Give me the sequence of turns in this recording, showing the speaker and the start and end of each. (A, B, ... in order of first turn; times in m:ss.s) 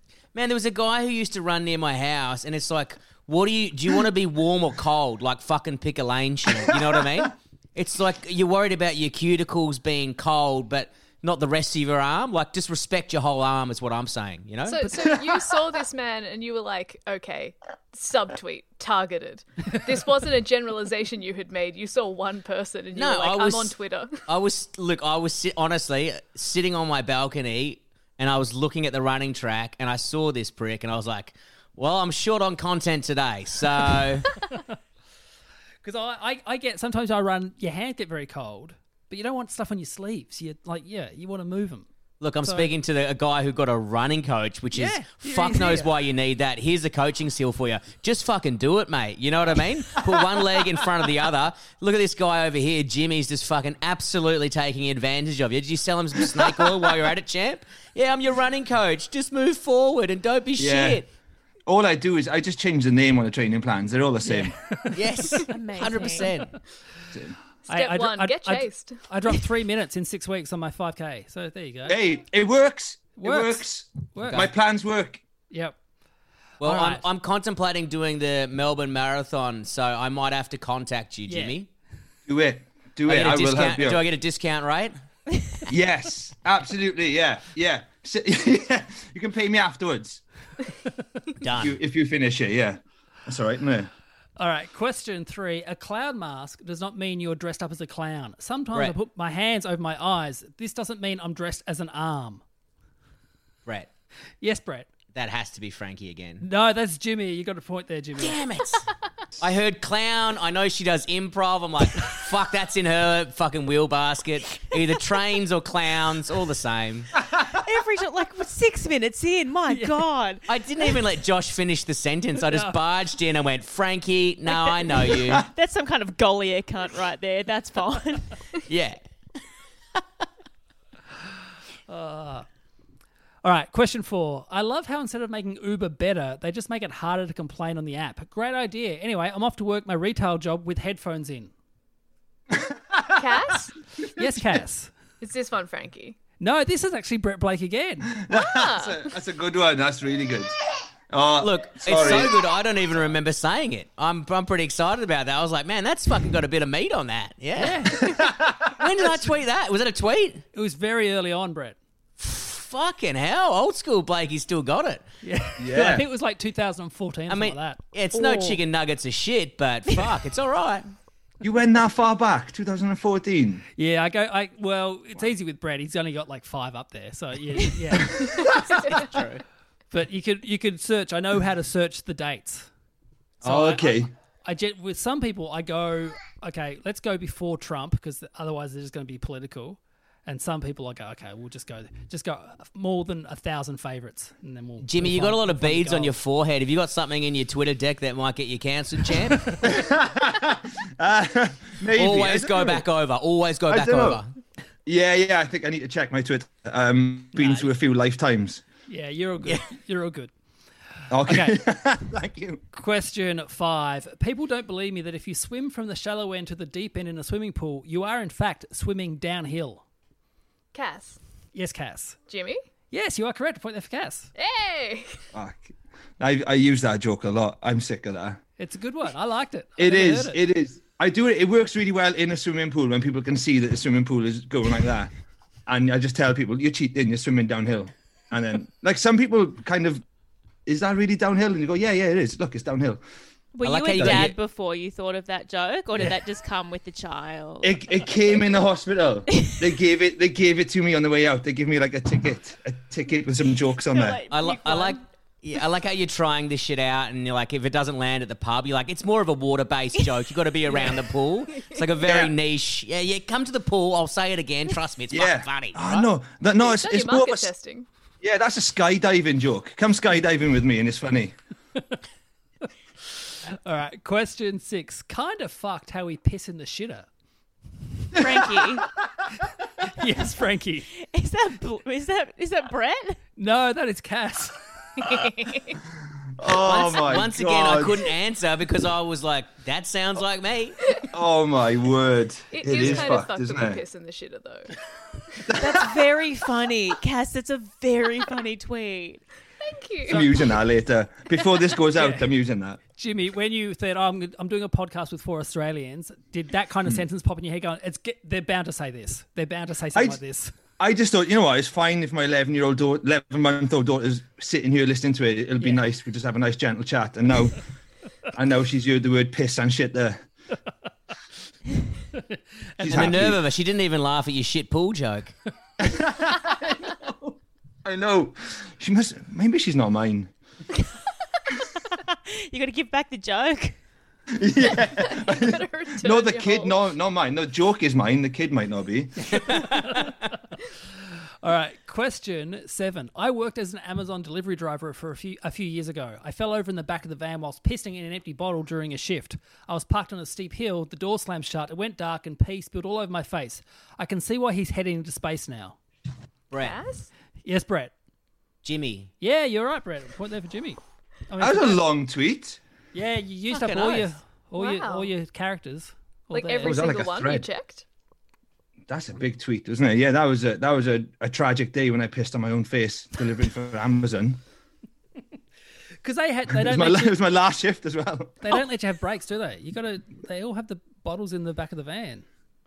0:00.3-0:15.1 A
0:14.7-0:24.2 B
0:22.9-0:23.7 A
0:24.2-0:34.3 A
0:35.8-0:41.9 C
0:42.2-1:01.1 A
0:42.4-0:42.7 C
0:44.7-0:45.9 C
1:00.6-1:01.0 D
1:01.7-1:04.6 D
1:04.2-1:06.5 C
1:04.9-1:06.5 A
1:05.5-1:06.3 E
1:07.7-1:09.0 B
1:07.7-1:12.0 C
1:11.9-1:15.2 D
1:13.2-1:14.5 C
1:16.6-1:17.0 C
1:16.6-1:21.7 A
1:21.3-1:21.6 C
1:22.3-1:24.0 D
1:23.1-1:25.0 A
1:25.7-1:30.2 D
1:31.4-1:31.8 A
1:31.6-1:33.9 D
1:34.4-1:42.4 C
1:44.4-1:44.9 C
1:45.2-1:46.4 A
1:46.4-1:48.4 C
1:48.2-1:48.9 A
1:49.4-1:57.1 A
1:57.5-2:00.5 E
1:59.7-2:00.0 C
2:00.5-2:05.4 A
2:02.5-2:02.8 C
2:04.6-2:08.4 E
2:08.7-2:09.0 A
2:11.9-2:12.5 C
2:13.4-2:21.5 C
2:22.6-2:23.0 D
2:23.1-2:24.3 B
2:24.2-2:24.9 C
2:25.2-2:26.2 B
2:26.4-2:28.1 C
2:28.2-2:30.5 D
2:28.3-2:29.0 B
2:31.1-2:32.4 D
2:31.4-2:38.1 A
2:37.6-2:38.2 C
2:38.0-2:38.8 D
2:38.7-2:40.4 A
2:40.5-2:41.8 C
2:42.2-2:45.0 A
2:45.2-2:48.4 C
2:45.6-2:46.0 D
2:47.3-2:50.9 A
2:51.4-2:53.6 D
2:53.8-2:58.5 C
2:58.4-2:58.9 B
2:58.8-2:59.4 A
2:59.9-3:02.7 C
3:03.4-3:04.1 D
3:03.4-3:16.1 C
3:14.8-3:19.7 A
3:19.6-3:22.8 D
3:22.0-3:24.3 A
3:23.7-3:24.2 D
3:24.9-3:28.6 D
3:27.4-3:27.6 C
3:28.9-3:30.3 C
3:31.1-3:32.6 D
3:31.3-3:31.6 C
3:32.7-3:39.8 C
3:40.7-3:41.2 B
3:41.6-3:42.2 C
3:42.3-3:42.6 B
3:42.9-3:44.3 C
3:44.4-3:45.2 B
3:45.3-3:48.4 D
3:48.6-3:50.4 C
3:49.8-3:55.1 D
3:55.7-4:00.0 D
4:00.7-4:03.0 D
4:03.5-4:07.8 E
4:03.6-4:04.4 A
4:04.0-4:04.3 D
4:07.6-4:14.2 D
4:13.9-4:15.0 E
4:14.3-4:26.1 A
4:22.0-4:22.3 D
4:25.1-4:27.5 D
4:26.6-4:27.9 B
4:28.2-4:31.4 D
4:33.5-4:37.1 C
4:38.1-4:38.9 E
4:39.8-4:40.9 C
4:41.0-4:43.2 E
4:43.4-4:44.6 C
4:45.0-4:45.8 B
4:46.4-4:48.1 D
4:46.5-4:50.8 A
4:51.1-4:53.8 D
4:52.5-4:54.7 B
4:55.5-4:55.9 D
4:55.6-4:59.2 E
4:59.6-5:00.6 B
5:00.1-5:02.8 D
5:02.0-5:02.3 C
5:03.0-5:10.5 C
5:09.9-5:10.2 D
5:10.8-5:17.6 D
5:18.3-5:20.2 D
5:22.1-5:23.3 C
5:22.8-5:23.4 D
5:22.9-5:25.3 A
5:25.8-5:30.3 D
5:32.0-5:33.8 E
5:34.3-5:39.6 D
5:34.7-5:36.8 B
5:39.2-5:40.2 C
5:41.4-5:55.8 C
5:56.5-5:56.8 A
5:56.6-5:57.1 B
5:57.4-5:57.9 C
5:58.6-5:59.1 A
5:59.2-6:00.8 C
6:01.3-6:01.8 C
6:01.4-6:02.6 D
6:02.9-6:06.9 C
6:03.5-6:04.1 A
6:04.6-6:05.1 B
6:06.3-6:07.8 B
6:06.6-6:07.5 D
6:08.9-6:14.4 D
6:16.0-6:17.2 C
6:16.5-6:18.6 D
6:18.4-6:22.2 C